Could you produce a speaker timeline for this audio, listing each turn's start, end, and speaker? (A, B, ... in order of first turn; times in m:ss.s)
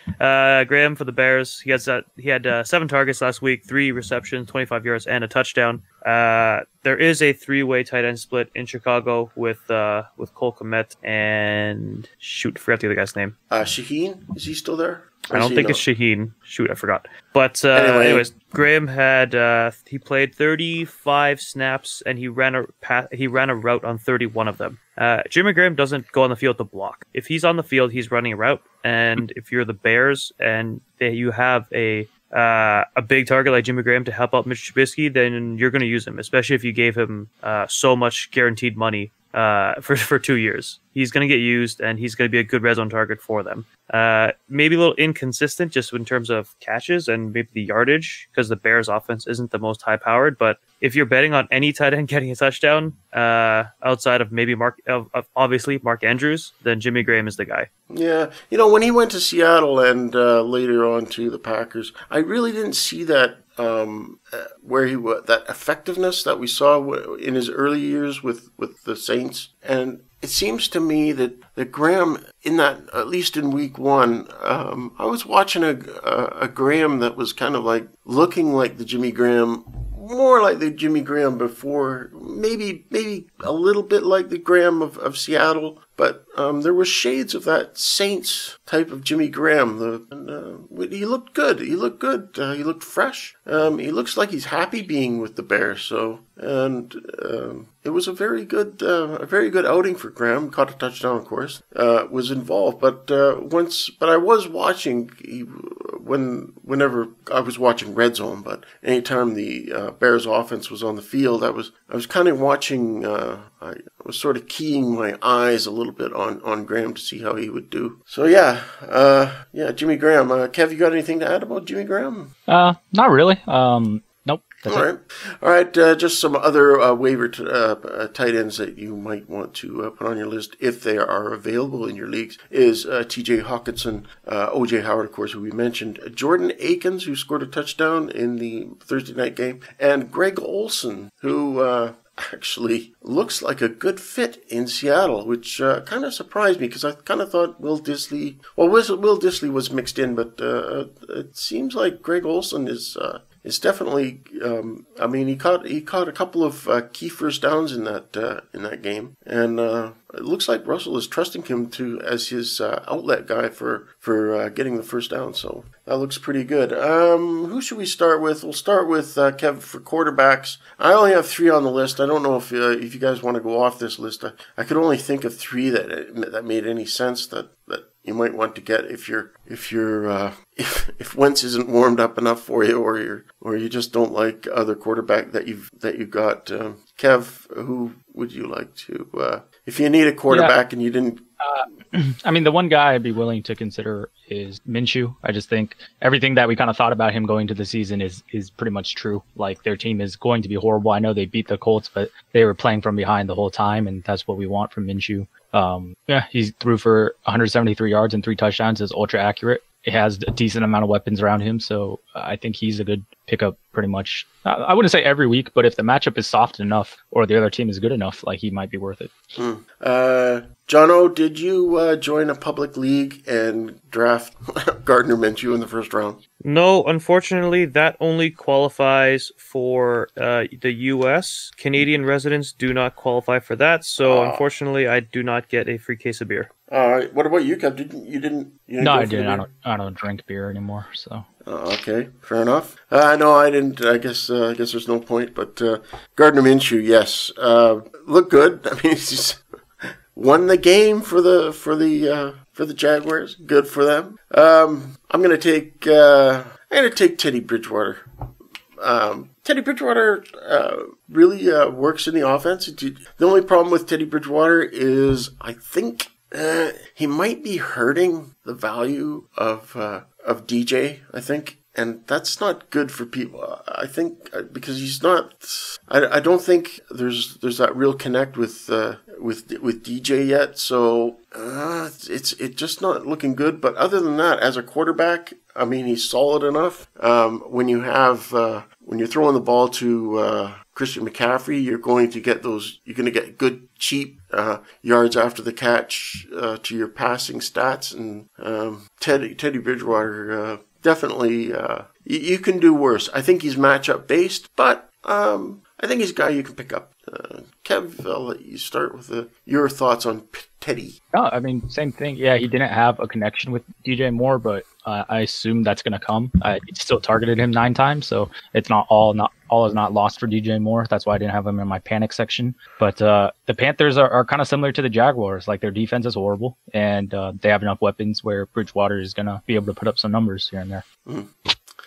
0:00.2-0:13.4 A
0:13.5-0:15.8 B
0:15.3-0:57.7 A
0:17.7-0:18.3 B
0:57.9-2:02.3 B
2:02.5-2:04.9 C
2:04.7-3:11.2 B
3:10.3-3:10.6 C
3:11.4-3:39.1 C
3:39.4-3:46.2 B
3:46.4-3:56.5 A
3:54.0-3:54.4 B
3:56.7-3:59.5 B
3:58.8-4:01.3 C
4:01.4-4:18.0 B
4:18.8-5:11.0 B
5:11.1-5:30.8 C
5:31.0-5:31.6 B